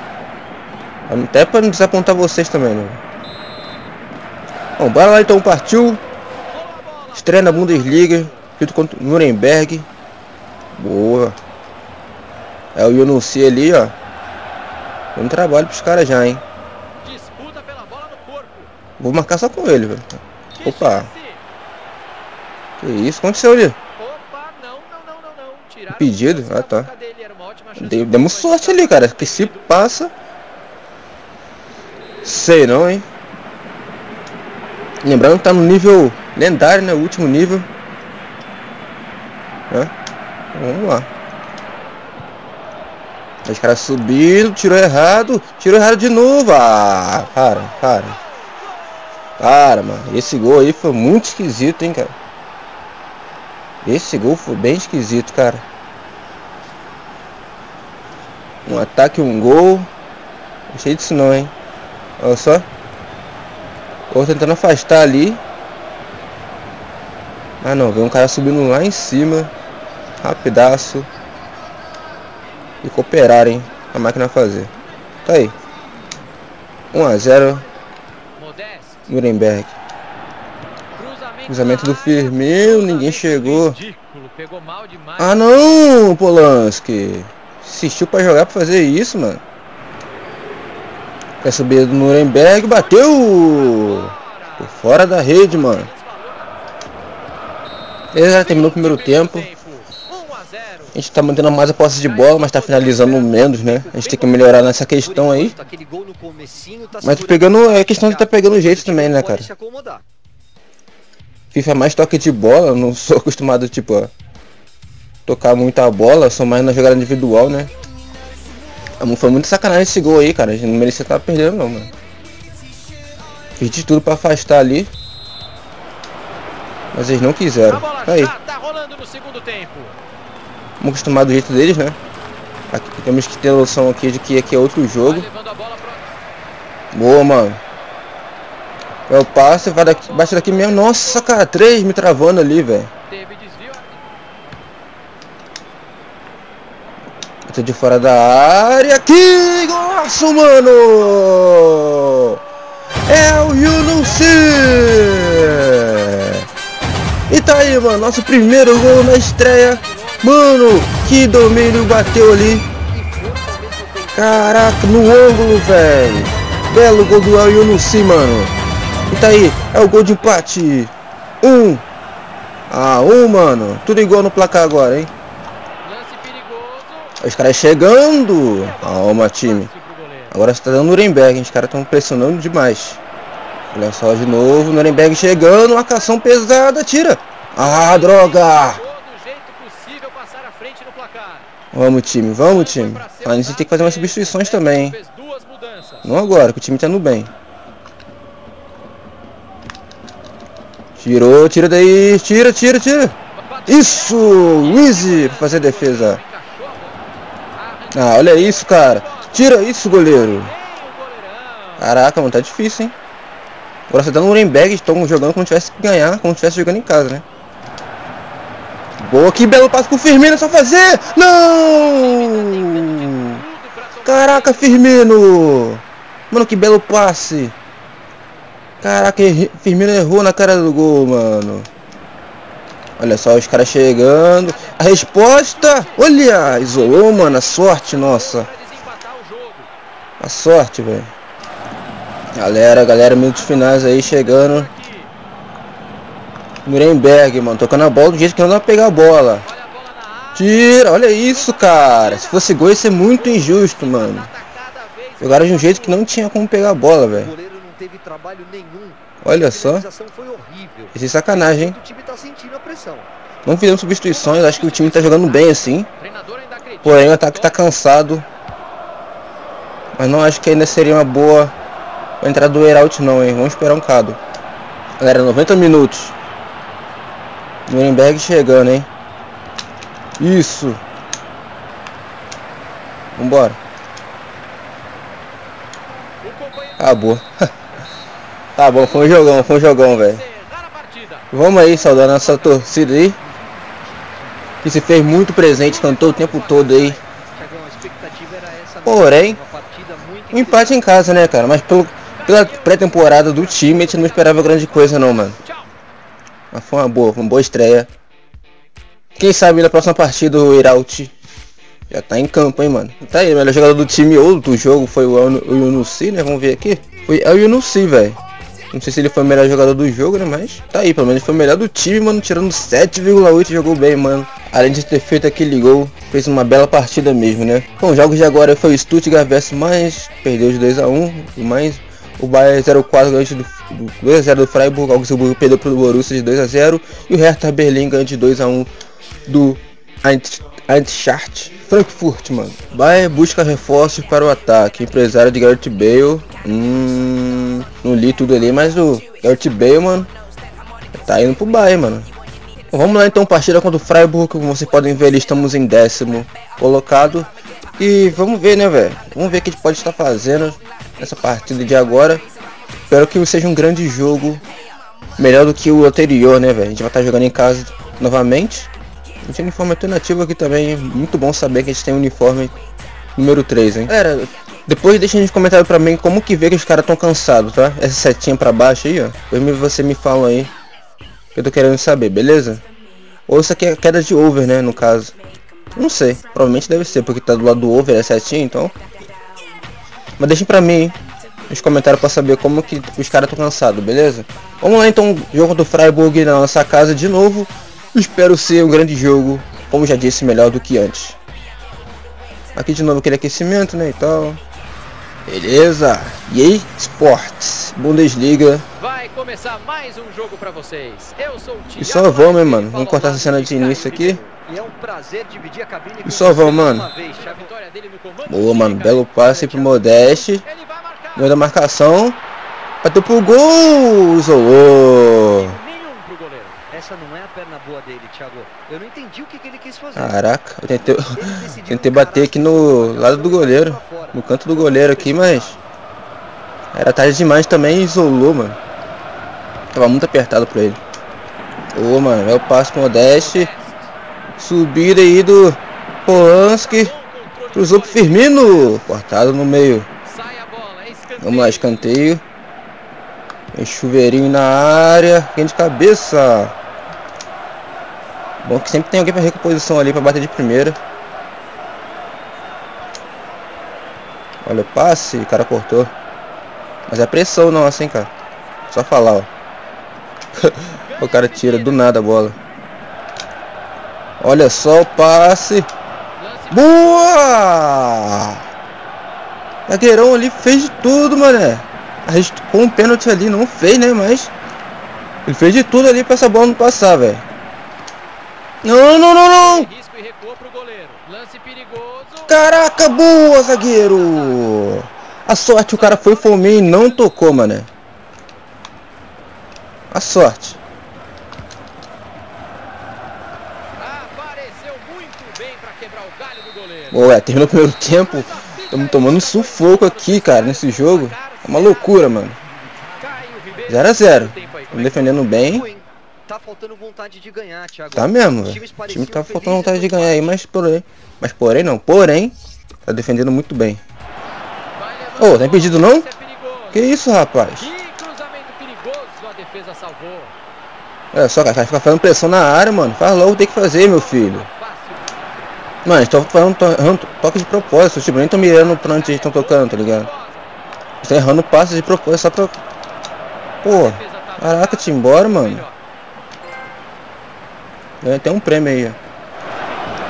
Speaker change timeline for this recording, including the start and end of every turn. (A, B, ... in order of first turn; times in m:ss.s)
0:01.1-0:03.0 A
0:04.8-0:06.0 A
0:06.5-0:08.4 B
0:07.1-0:09.9 A
0:10.8-0:11.4 A
0:12.8-0:13.9 A
0:15.2-0:16.4 A
0:17.0-0:18.7 B
0:19.0-0:21.1 A
0:20.6-0:21.4 B
0:22.8-0:23.8 A
0:24.0-0:29.8 B
0:25.9-0:26.9 A
0:27.8-0:30.1 A
0:32.2-0:33.1 A
0:35.0-0:37.7 A
0:40.5-0:41.1 A
0:43.4-0:48.2 A
0:49.4-0:52.1 A
0:53.8-0:55.6 A
0:58.7-0:59.9 A
1:00.7-1:01.5 A
1:02.2-1:02.7 A
1:04.1-1:05.4 A
1:07.6-1:09.5 A
1:10.2-1:11.1 A
1:12.8-1:14.7 A
1:15.2-1:15.6 A
1:16.9-1:17.7 A
1:18.4-1:19.1 B
1:19.1-1:19.7 A
1:21.0-1:25.4 B
1:21.5-1:23.8 A
1:25.2-1:29.4 A
1:31.4-1:35.9 A
1:32.6-1:36.6 B
1:38.1-1:39.5 A
1:38.3-1:40.9 B
1:40.9-1:45.6 A
1:42.0-1:43.9 B
1:43.7-1:50.0 C
1:47.0-1:49.5 A
1:51.5-1:54.1 A
1:55.3-1:57.7 A
1:59.0-2:01.9 A
2:03.6-2:04.9 A
2:06.9-2:08.3 A
2:07.6-2:10.0 B
2:10.8-2:12.0 A
2:12.7-2:15.3 A
2:15.0-2:16.2 B
2:16.9-2:17.6 A
2:19.1-2:22.9 A
2:19.5-2:21.4 B
2:23.1-2:24.1 B
2:27.5-2:32.4 A
2:33.1-2:36.5 A
2:37.3-2:42.7 A
2:37.7-2:40.5 B
2:41.6-2:47.4 C
2:44.1-2:48.5 A
2:49.1-2:51.8 A
2:52.7-2:55.1 A
2:55.8-2:57.2 B
2:57.2-2:59.7 A
2:58.5-3:00.4 B
3:00.3-3:03.0 A
3:03.7-3:08.8 A
3:04.4-3:06.0 B
3:07.6-3:11.5 B
3:11.7-3:15.0 A
3:12.4-3:16.2 B
3:16.0-3:17.3 A
3:21.0-3:23.2 A
3:23.3-3:31.9 B
3:23.7-3:26.2 A
3:27.9-3:30.5 A
3:31.8-3:33.0 A
3:33.9-3:37.2 A
3:39.0-3:43.4 A
3:41.1-3:44.9 B
3:44.0-3:47.5 A
3:48.8-3:51.7 A
3:53.0-3:58.5 A
3:54.2-3:59.7 B
4:00.2-4:01.1 A
4:02.4-4:04.7 A
4:03.2-4:05.1 B
4:06.6-4:09.5 A
4:09.4-4:16.1 B
4:10.3-4:14.3 A
4:15.2-4:17.3 A
4:17.1-4:23.1 C
4:19.2-4:19.9 A
4:20.9-4:21.8 A
4:23.4-4:25.9 A
4:24.1-4:27.6 B
4:26.8-4:28.3 A
4:30.0-4:31.5 A
4:32.2-4:34.2 A
4:35.0-4:36.1 A
4:37.7-4:38.9 A
4:40.2-4:40.8 A
4:43.2-4:43.6 A
4:46.2-4:47.2 B
4:46.8-4:47.5 A
4:48.6-4:50.2 A
4:48.7-4:52.7 B
4:51.3-4:53.2 A
4:54.6-4:57.0 A
4:55.5-4:57.0 B
4:57.3-5:00.8 C
4:58.8-4:59.4 A
5:00.3-5:05.4 A
5:02.2-5:05.7 B
5:06.5-5:07.9 A
5:09.2-5:11.1 A
5:11.9-5:18.2 A
5:18.7-5:38.7 A
5:39.3-5:50.1 A
5:50.9-5:52.1 A
5:52.7-6:02.2 A
6:02.9-6:04.4 A
6:05.2-6:08.7 A
6:09.2-6:12.6 A
6:13.2-6:20.5 A
6:21.4-6:22.6 A
6:23.3-6:25.2 A
6:25.7-6:28.8 A
6:30.2-6:31.0 A
6:31.5-6:41.2 A
6:42.6-6:44.4 A
6:45.3-6:48.7 A
6:48.8-6:54.0 B
6:51.8-6:54.2 A
6:53.6-6:57.5 C
6:56.0-6:56.9 A
6:57.0-7:01.3 B
6:58.3-7:00.4 A
7:01.2-7:02.2 A
7:02.8-7:05.6 A
7:05.2-7:06.6 B
7:06.7-7:10.2 C
7:10.0-7:15.6 A
7:11.1-7:14.2 C
7:14.7-7:15.6 B
7:16.7-7:18.6 A
7:19.7-7:20.8 A
7:21.7-7:23.5 A
7:23.0-7:23.9 B
7:24.4-7:26.9 A
7:26.1-7:28.8 B
7:27.5-7:29.9 A
7:30.0-7:31.7 B
7:31.2-7:32.2 A
7:33.5-7:36.5 A
7:38.4-7:40.8 A
7:44.4-7:45.9 A
7:46.9-7:48.1 A
7:48.7-7:49.3 A
7:50.4-7:52.4 A
7:50.8-7:51.9 B
7:54.2-7:55.7 A
7:56.2-7:57.4 B
7:56.5-7:58.4 A
7:59.7-8:04.3 A
8:05.3-8:07.2 A
8:08.6-8:09.7 A
8:09.2-8:12.4 B
8:12.3-8:17.7 A
8:13.5-8:14.6 B
8:15.7-8:17.0 B
8:19.9-8:20.6 A
8:23.8-8:27.0 B
8:26.9-8:32.4 A
8:27.9-8:32.0 B
8:33.0-8:35.2 B
8:33.7-8:35.7 A
8:35.3-8:40.4 C
8:37.9-8:43.8 A
8:44.8-8:46.9 B
8:45.2-8:46.1 A
8:46.7-8:47.7 A
8:47.6-8:50.3 B
8:51.1-8:54.5 A
8:53.8-8:55.1 B
8:55.8-9:00.1 A
8:58.6-9:00.5 B
9:01.0-9:02.6 A
9:03.6-9:05.7 A
9:03.6-9:05.7 B
9:08.0-9:09.0 A